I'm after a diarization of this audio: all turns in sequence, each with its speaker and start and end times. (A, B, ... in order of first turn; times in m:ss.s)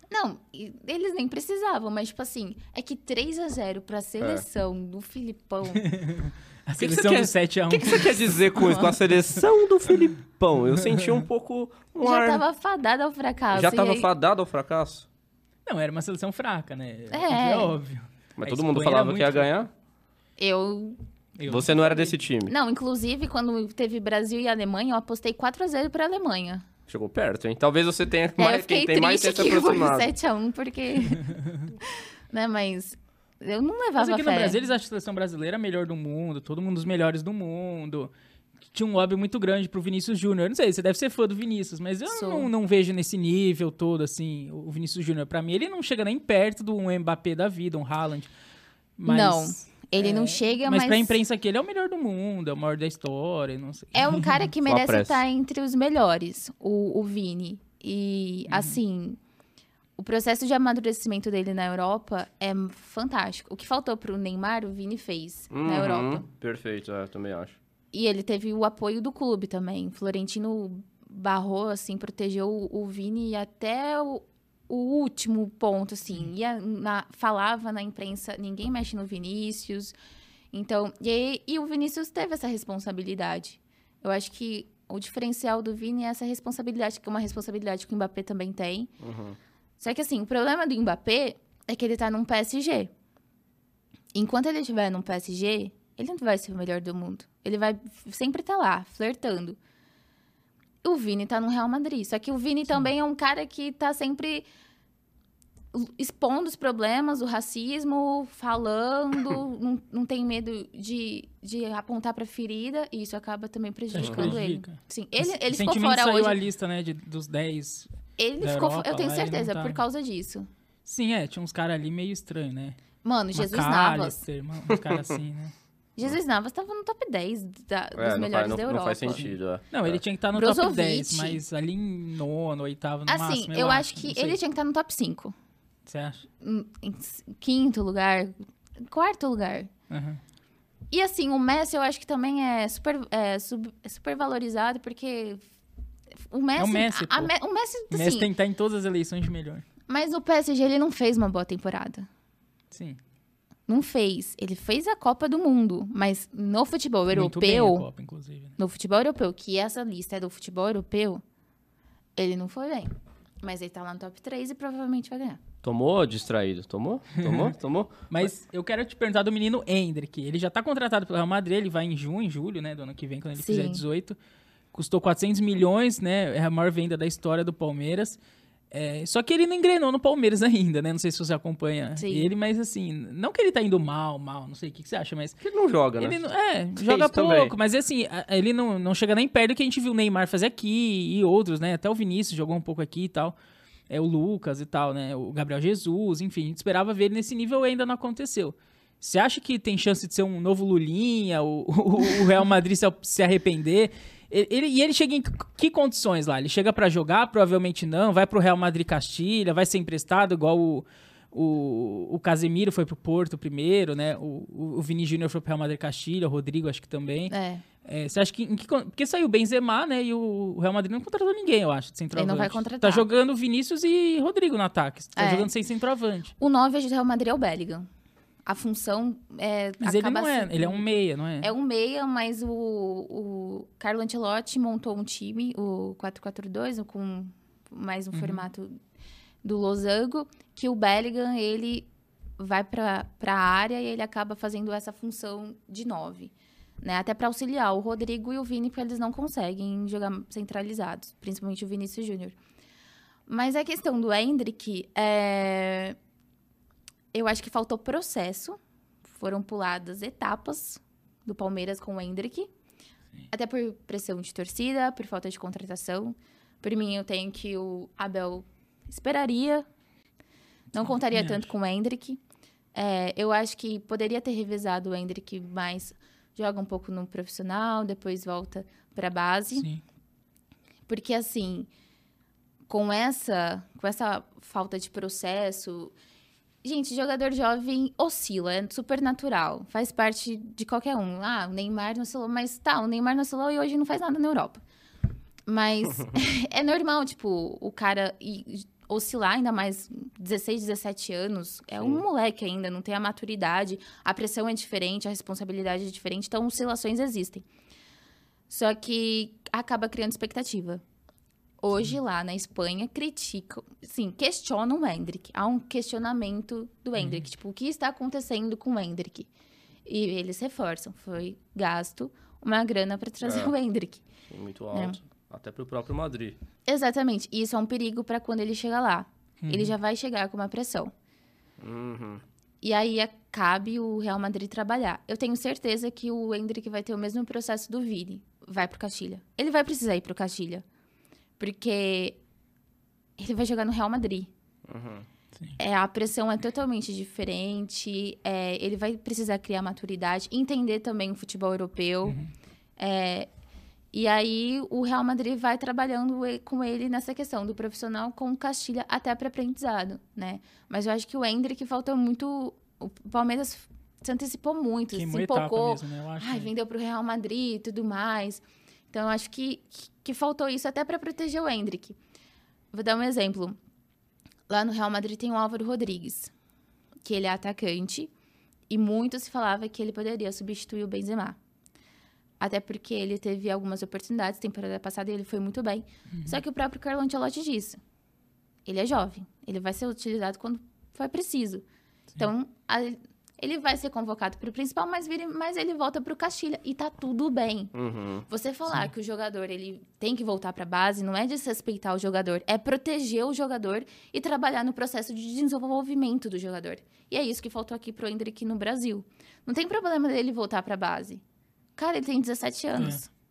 0:00.1-0:05.8 A
0:05.7-0:09.0 B
0:06.8-0:12.4 C
0:12.0-0:14.1 A
0:13.5-0:15.1 C
0:15.6-0:19.5 B
0:17.1-0:17.8 A
0:18.4-0:19.7 C
0:20.4-0:21.0 A
0:21.4-0:21.8 B
0:21.5-0:22.5 C
0:22.5-0:26.6 A
0:26.9-0:30.1 C
0:28.4-0:31.2 A
0:31.8-0:34.6 A
0:34.0-0:38.1 B
0:38.7-0:48.3 B
0:42.1-0:42.5 A
0:49.0-0:54.2 B
0:49.0-0:51.2 A
0:53.9-0:59.2 A
0:54.6-0:55.2 C
0:58.5-0:58.8 B
1:00.0-1:06.2 A
1:05.5-1:07.6 C
1:07.9-1:19.9 A
1:20.5-1:28.9 A
1:29.0-1:29.4 C
1:29.8-1:32.9 A
1:34.1-1:39.6 A
1:40.8-1:44.5 A
1:45.7-1:56.4 A
1:53.9-1:57.9 B
1:54.0-1:54.4 C
1:58.2-2:00.5 A
1:58.4-1:59.8 B
2:00.8-2:02.8 B
2:03.0-2:04.2 A
2:03.3-2:05.5 B
2:04.7-2:05.0 C
2:06.0-2:09.3 A
2:08.0-2:10.0 C
2:09.7-2:14.4 B
2:10.3-2:11.4 A
2:13.1-2:15.3 A
2:15.8-2:16.2 B
2:16.4-2:19.7 A
2:19.9-2:20.2 B
2:20.9-2:25.4 A
2:26.3-2:28.3 A
2:26.6-2:27.3 B
2:27.9-2:29.6 B
2:29.9-2:32.1 A
2:32.7-2:33.0 B
2:33.7-2:37.9 A
2:37.1-2:38.6 B
2:38.6-2:41.2 A
2:42.2-2:42.9 A
2:43.4-2:45.4 A
2:45.6-2:48.3 C
2:47.2-2:47.5 B
2:48.1-2:54.2 B
2:53.4-2:53.8 A
2:54.7-2:58.2 B
2:58.7-3:05.4 B
3:02.0-3:02.3 A
3:05.4-3:06.2 C
3:06.0-3:13.3 B
3:06.8-3:07.5 C
3:13.9-3:46.3 B
3:37.3-3:37.6 A
3:42.1-3:43.0 A
3:45.2-3:45.5 A
3:46.4-3:47.9 A
3:48.4-3:50.8 A
3:49.8-3:51.5 B
3:51.4-3:58.8 A
3:58.1-3:58.5 B
3:59.4-4:12.4 A
4:13.3-4:16.0 A
4:17.1-4:22.5 A
4:23.3-4:29.6 A
4:30.7-4:32.2 A
4:30.8-4:31.5 B
4:32.7-4:39.7 A
4:39.6-4:39.8 B
4:40.9-4:41.7 A
4:42.7-4:45.9 A
4:46.6-4:54.6 A
4:55.5-5:07.4 A
5:01.8-5:02.0 C
5:08.5-5:10.8 A
5:11.6-5:19.3 A
5:17.0-5:17.2 B
5:19.8-5:24.0 A
5:23.2-5:23.5 C
5:24.3-5:26.4 C
5:24.7-5:25.0 A
5:26.7-5:30.9 A
5:29.4-5:29.7 B
5:31.6-5:32.2 C
5:32.6-5:40.6 A
5:41.4-5:42.2 A
5:43.2-5:44.3 A
5:44.6-5:45.1 C
5:45.6-5:52.2 A
5:52.8-5:53.3 A
5:53.9-6:12.0 A
6:04.9-6:06.5 B
6:12.7-6:13.6 A
6:14.5-6:16.3 A
6:17.0-6:18.1 A
6:18.7-6:21.4 A
6:22.4-6:27.8 A
6:26.1-6:26.4 B
6:28.6-6:31.6 A
6:32.2-6:37.7 A
6:37.7-6:38.2 C
6:38.3-6:51.2 A
6:51.8-6:53.1 A
6:52.8-6:53.0 B